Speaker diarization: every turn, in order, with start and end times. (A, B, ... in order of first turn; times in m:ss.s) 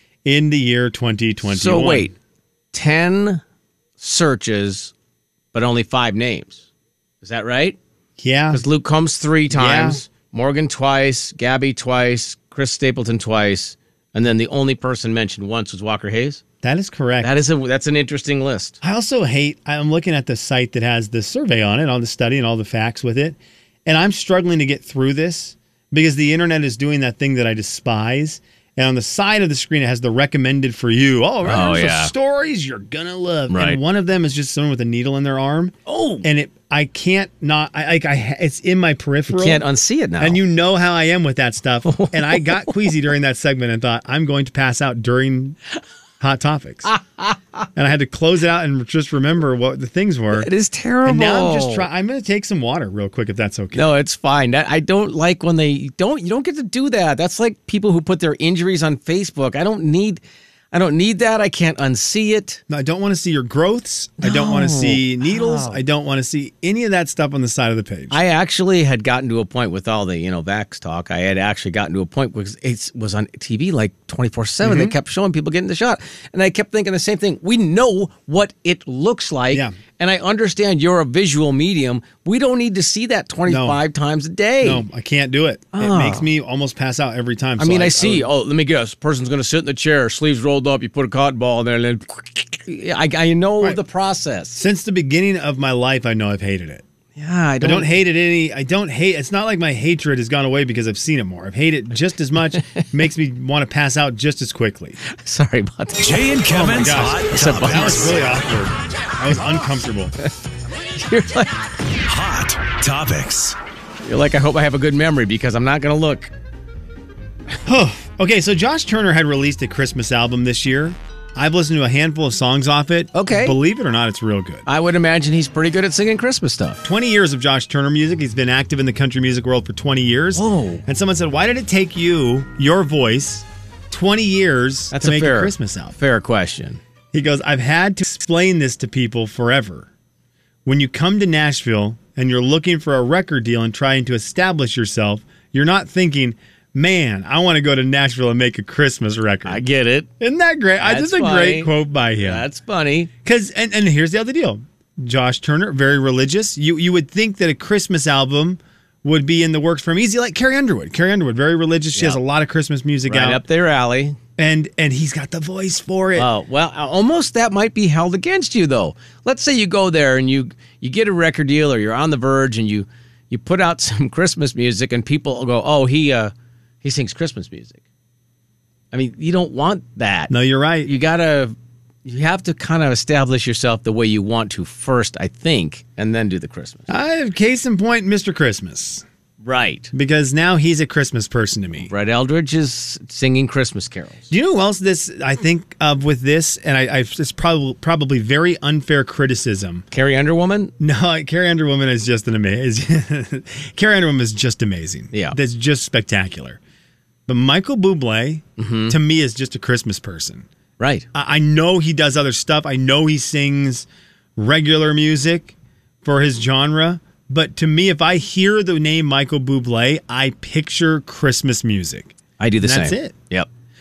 0:00.2-0:02.1 A
0:01.4-0:02.1 B
0:02.7-0:03.4 B
0:04.0-0:04.9 B
0:05.5-0:06.6 B
0:07.2-0:07.8 B
0:08.2-0:08.6 A
0:08.5-0:16.4 B
0:09.5-0:10.0 A
0:16.6-0:17.3 A
0:17.2-0:18.8 B
0:18.8-0:39.6 A
0:31.4-0:32.1 B
0:33.5-0:33.8 B
0:35.8-0:36.2 B
0:39.3-0:40.4 B
0:40.2-0:45.6 A
0:41.8-0:42.7 B
0:46.2-0:46.9 A
0:46.8-0:47.7 B
0:47.8-0:50.5 A
0:50.3-0:51.9 B
0:51.0-0:53.9 A
0:53.7-1:00.2 B
1:00.7-1:02.6 B
1:02.7-1:08.2 A
1:04.2-1:05.8 B
1:08.1-1:24.8 B
1:14.6-1:14.9 A
1:23.4-1:23.8 A
1:24.6-1:28.3 A
1:25.7-1:26.3 B
1:27.6-1:34.6 B
1:34.6-1:36.8 A
1:37.2-1:37.9 B
1:37.6-1:45.0 A
1:45.0-1:46.7 B
1:46.0-1:48.2 C
1:46.6-1:50.1 A
1:47.3-1:48.1 B
1:50.9-1:51.5 B
1:52.0-1:53.6 C
1:54.0-1:56.3 B
1:57.6-2:04.6 A
2:03.1-2:03.6 B
2:04.7-2:06.8 B
2:06.8-2:16.0 A
2:10.3-2:10.8 B
2:14.9-2:16.8 B
2:17.1-2:19.9 A
2:20.6-2:29.6 A
2:29.4-2:30.1 B
2:30.2-2:32.4 A
2:30.8-2:33.1 B
2:33.2-2:43.4 A
2:41.9-2:42.2 B
2:43.1-2:44.2 B
2:44.4-2:46.3 A
2:46.2-2:57.8 B
2:58.9-3:06.9 B
3:00.3-3:00.9 A
3:06.9-3:09.0 A
3:09.4-3:09.9 B
3:09.9-3:11.9 A
3:11.9-3:14.3 B
3:14.3-3:19.8 A
3:19.9-3:20.7 B
3:20.8-3:26.6 A
3:25.1-3:25.4 B
3:27.3-3:30.5 A
3:28.6-3:29.0 B
3:30.8-3:31.0 B
3:31.1-3:43.1 A
3:42.4-3:43.5 B